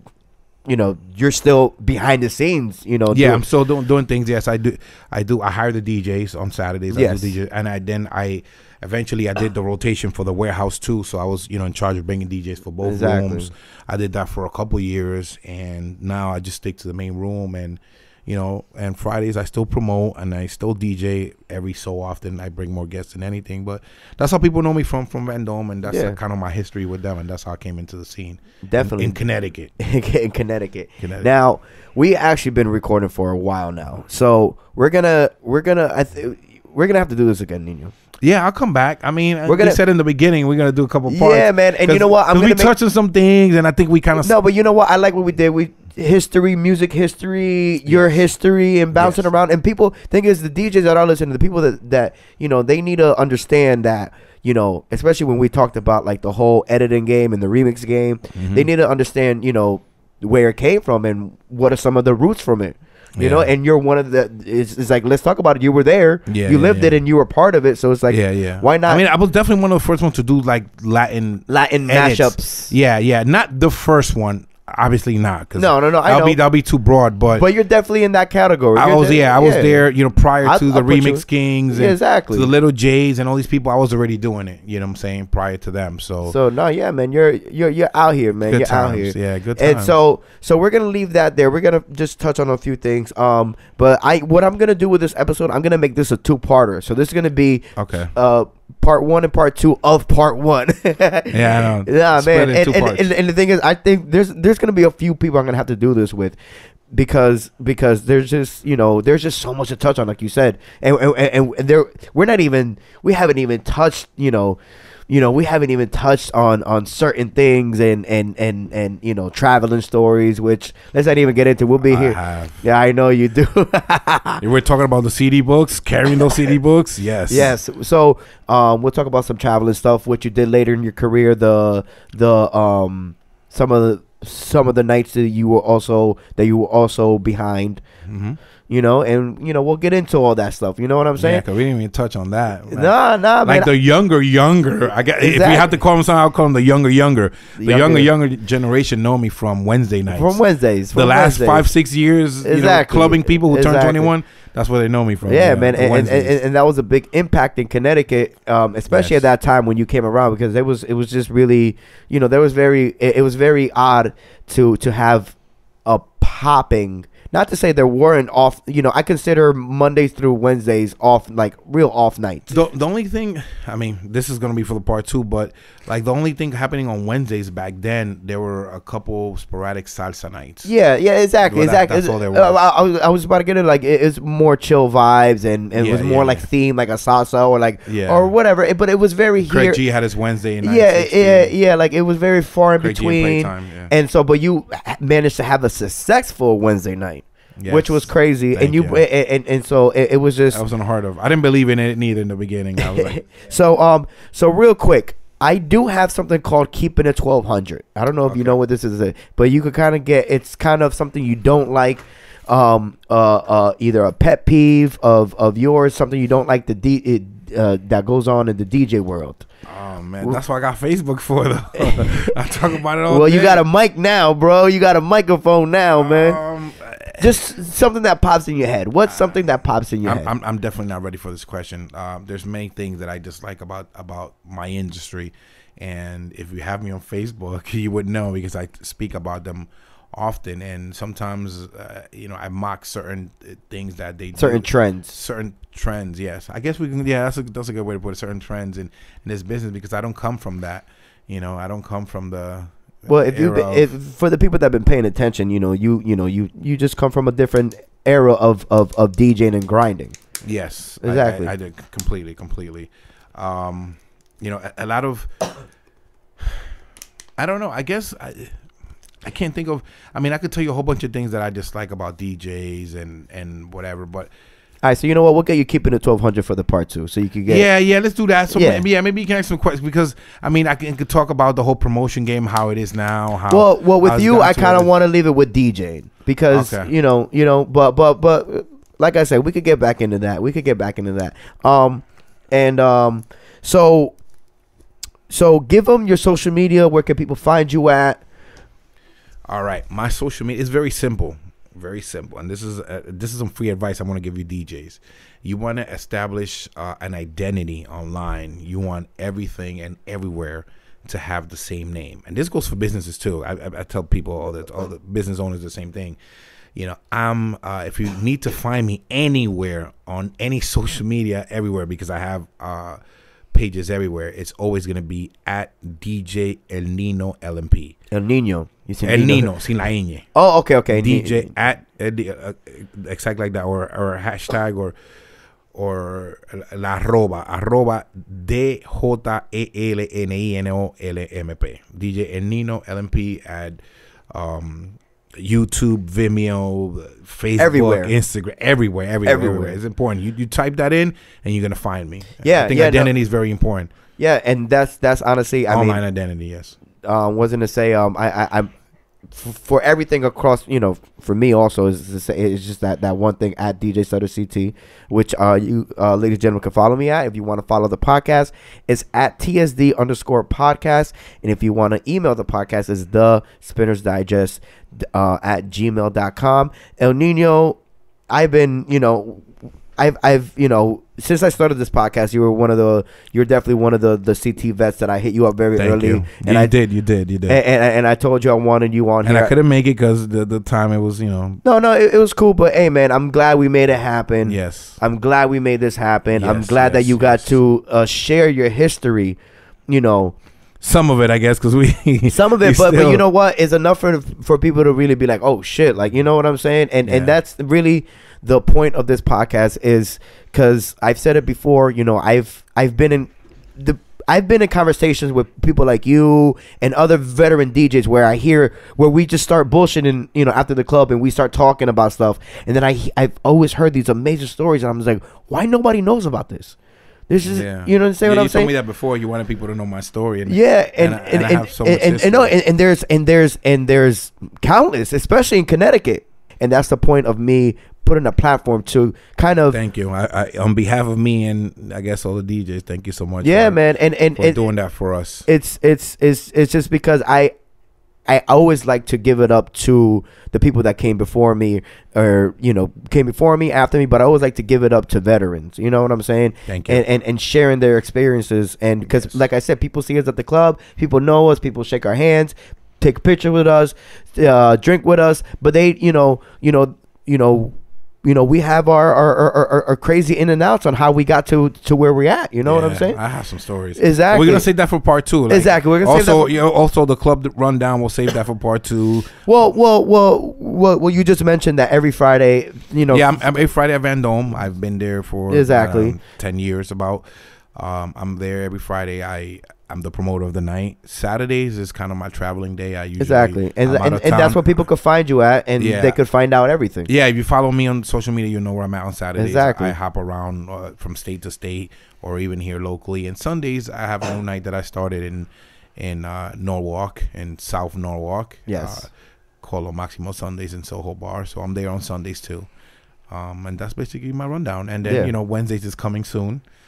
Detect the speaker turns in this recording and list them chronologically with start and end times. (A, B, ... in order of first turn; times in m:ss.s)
0:00.7-0:03.4 A
0:03.1-0:29.7 B
0:06.9-0:07.3 A
0:12.8-0:13.5 A
0:25.9-0:26.2 A
0:28.6-0:29.2 A
0:29.8-0:37.9 A
0:31.0-0:31.3 B
0:38.2-0:44.4 B
0:39.5-0:39.8 A
0:41.1-0:42.7 A
0:44.2-1:09.0 A
0:47.9-0:48.2 B
0:48.9-0:49.3 B
0:58.4-0:58.7 B
1:03.2-1:03.5 B
1:06.3-1:07.0 B
1:08.1-1:17.5 B
1:11.5-1:12.7 A
1:15.6-1:16.4 A
1:17.3-1:19.8 A
1:18.8-1:26.4 B
1:20.4-1:22.5 A
1:26.3-1:46.4 A
1:28.4-1:29.9 B
1:37.8-1:38.1 B
1:41.3-1:43.1 B
1:46.9-2:04.4 A
2:01.8-2:02.6 B
2:04.4-2:07.5 B
2:07.3-2:17.8 A
2:18.1-2:18.4 B
2:18.7-2:21.4 A
2:21.2-2:30.4 B
2:22.7-2:23.7 A
2:25.2-2:25.7 A
2:27.6-2:28.1 A
2:30.1-2:31.7 A
2:30.9-2:36.4 B
2:32.4-2:34.1 A
2:35.3-2:45.3 A
2:38.9-2:39.2 B
2:45.9-2:52.6 A
2:52.5-3:00.7 B
3:00.6-3:09.8 A
3:01.5-3:02.6 B
3:05.8-3:06.5 B
3:07.9-3:08.3 B
3:09.4-3:11.5 B
3:10.6-3:20.6 A
3:12.8-3:13.9 B
3:17.6-3:19.0 B
3:20.5-3:23.3 B
3:22.8-3:39.4 A
3:28.3-3:28.6 B
3:39.7-3:43.6 B
3:41.8-3:42.3 A
3:43.1-3:46.4 A
3:46.0-3:47.3 B
3:47.2-3:50.3 A
3:49.1-3:49.4 B
3:50.0-4:13.9 B
4:04.4-4:05.1 A
4:13.1-4:20.2 A
4:20.4-4:25.4 B
4:21.0-4:21.5 A
4:27.4-4:28.6 B
4:29.2-4:34.3 B
4:34.8-4:37.7 A
4:37.5-4:44.9 B
4:38.5-4:38.8 A
4:43.5-4:54.2 A
4:46.5-4:46.9 B
4:55.3-4:58.2 A
4:59.5-5:16.2 B
5:16.8-5:23.0 B
5:23.5-5:28.0 B
5:28.1-5:29.5 A
5:29.0-5:30.3 B
5:30.4-5:31.5 A
5:30.9-5:35.0 B
5:35.7-5:43.8 B
5:44.3-5:53.9 B
5:47.6-5:48.1 A
5:49.2-5:49.8 A
5:52.4-5:53.1 A
5:54.2-5:56.0 A
5:55.7-5:56.8 B
5:57.0-5:58.7 A
5:59.3-6:17.8 A
6:18.3-6:26.7 A
6:25.8-6:27.6 B
6:27.5-6:29.5 A
6:29.2-6:31.6 B
6:31.6-6:40.4 A
6:34.4-6:35.0 B
6:36.3-6:37.6 B
6:40.8-6:43.2 B
6:42.3-7:06.8 A
6:47.0-6:47.4 B
7:07.3-7:08.7 A
7:07.4-7:12.6 B
7:10.5-7:19.8 A
7:19.7-7:23.8 B
7:23.4-7:24.6 A
7:24.4-7:25.5 B
7:25.5-7:27.5 A
7:28.3-7:53.2 A
7:36.7-7:37.0 B
7:39.0-7:39.4 B
7:52.6-7:59.4 B
7:54.0-7:54.7 A
7:55.5-7:56.5 A
7:59.5-8:03.4 A
8:03.1-8:14.7 B
8:05.5-8:06.2 A
8:13.2-8:17.1 A
8:15.8-8:16.2 B
8:17.1-8:29.1 B
8:19.4-8:19.9 A
8:28.7-8:29.1 A
8:29.6-8:32.7 B
8:33.3-8:36.6 B
8:35.0-8:35.3 A